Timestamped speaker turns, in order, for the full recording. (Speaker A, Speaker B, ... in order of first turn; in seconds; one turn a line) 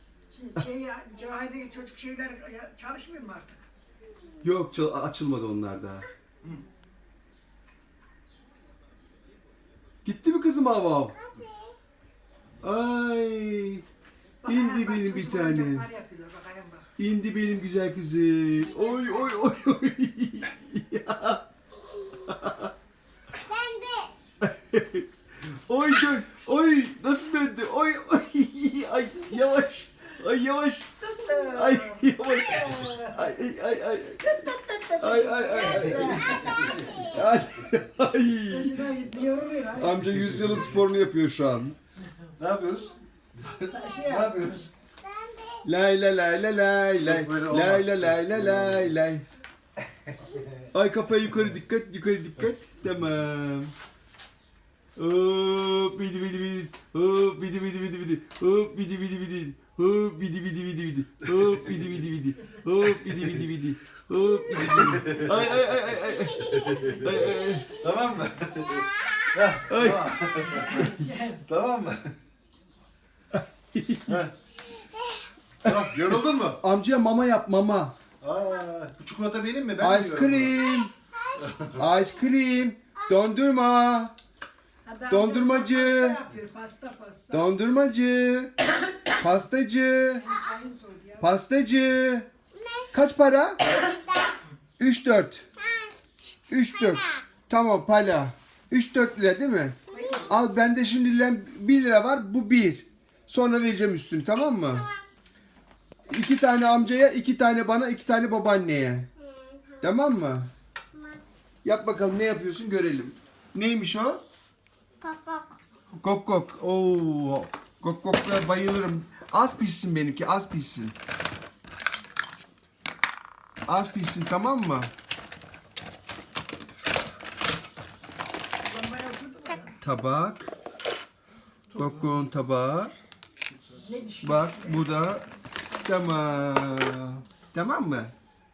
Speaker A: 0.3-3.7
Speaker B: 4.4-6.1
Speaker B: 10.0-11.2
Speaker B: 12.6-13.8
Speaker A: 14.4-16.9
Speaker B: 14.4-15.8
Speaker B: 17.0-21.4
Speaker B: 22.2-22.7
Speaker C: 23.4-24.1
Speaker B: 24.4-34.5
Speaker A: 31.0-33.3
Speaker A: 34.2-36.9
Speaker B: 35.0-38.8
Speaker D: 36.0-36.9
Speaker A: 38.5-40.0
Speaker B: 39.7-41.8
Speaker D: 40.1-40.6
Speaker D: 42.4-44.7
Speaker A: 43.5-44.6
Speaker B: 45.6-49.2
Speaker D: 47.0-48.9
Speaker D: 50.1-50.6
Speaker B: 50.7-53.7
Speaker B: 55.0-67.8
Speaker D: 64.6-65.4
Speaker D: 66.6-67.0
Speaker D: 67.7-72.1
Speaker B: 69.7-70.6
Speaker A: 70.5-71.4
Speaker B: 73.3-74.2
Speaker D: 74.1-74.3
Speaker D: 75.6-76.6
Speaker B: 75.7-77.9
Speaker D: 78.2-80.6
Speaker B: 79.8-80.9
Speaker D: 81.4-81.8
Speaker B: 81.7-84.2
Speaker A: 84.8-87.5
Speaker B: 85.1-86.2
Speaker B: 87.3-90.3
Speaker A: 90.2-91.2
Speaker B: 91.2-92.3
Speaker B: 92.9-93.6
Speaker B: 94.8-95.5
Speaker B: 96.5-104.9
Speaker A: 99.9-100.3
Speaker B: 106.1-109.1
Speaker C: 109.2-109.8
Speaker B: 109.8-110.5
Speaker C: 110.9-111.2
Speaker B: 111.6-114.2
Speaker C: 115.0-115.5
Speaker B: 116.0-120.9
Speaker B: 123.7-124.9
Speaker A: 128.6-129.8
Speaker B: 129.8-130.5
Speaker B: 131.8-132.9
Speaker A: 133.8-134.9
Speaker B: 134.2-135.3
Speaker B: 135.8-138.1